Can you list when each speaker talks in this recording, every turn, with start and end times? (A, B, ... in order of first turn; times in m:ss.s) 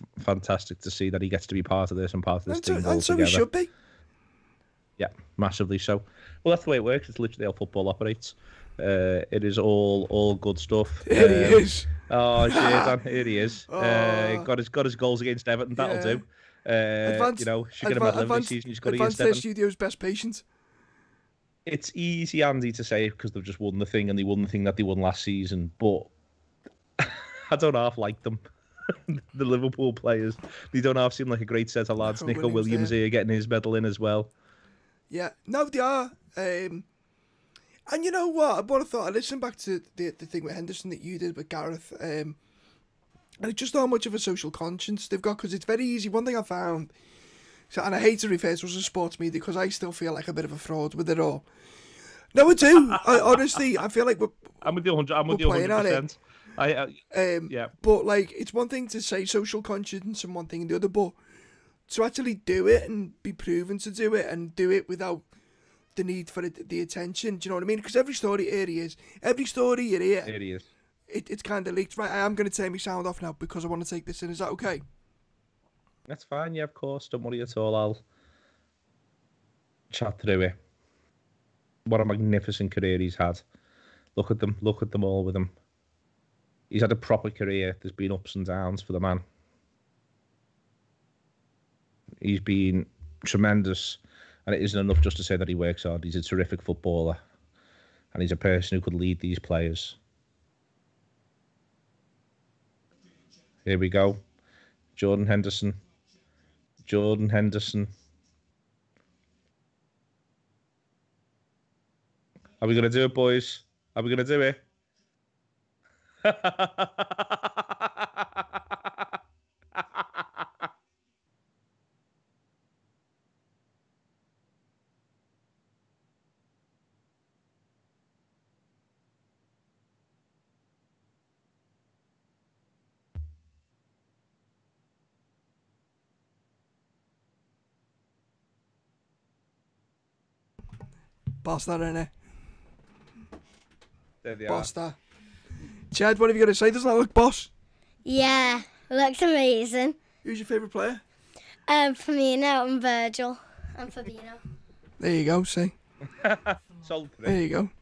0:00.2-0:03.4 A
0:02.5-0:03.7 B
0:05.0-0:19.4 A
0:11.0-0:13.0 B
0:13.7-0:14.5 B
0:15.8-0:16.2 B
0:17.0-0:20.4 B
0:21.6-0:26.1 A
0:27.0-0:34.3 A
0:32.0-0:32.9 B
0:35.1-0:36.9 B
0:37.9-0:42.4 B
0:43.4-0:46.9 B
0:47.7-0:51.4 B
0:52.3-0:54.6 B
0:52.8-0:53.6 A
0:54.6-0:57.7 A
0:55.3-0:56.0 B
0:57.1-1:01.2 B
1:01.9-1:05.2 B
1:05.9-1:10.3 B
1:10.2-1:10.7 A
1:11.1-1:14.8 B
1:16.1-1:18.0 A
1:19.9-1:20.6 A
1:21.8-1:23.4 A
1:24.2-1:25.5 A
1:26.7-1:29.2 A
1:32.2-1:37.2 A
1:38.1-1:40.0 A
1:43.6-1:44.2 A
1:45.0-1:45.8 A
1:46.8-1:47.9 A
1:52.6-1:54.6 A
1:56.2-1:59.0 A
1:59.9-2:00.4 A
2:21.4-2:22.1 B
2:24.2-2:24.7 A
2:24.5-2:25.0 B
2:25.9-2:27.5 B
2:28.0-2:30.0 C
2:30.2-2:31.0 B
2:31.7-2:34.4 C
2:35.0-2:35.7 B
2:36.1-2:37.4 A
2:37.2-2:37.7 B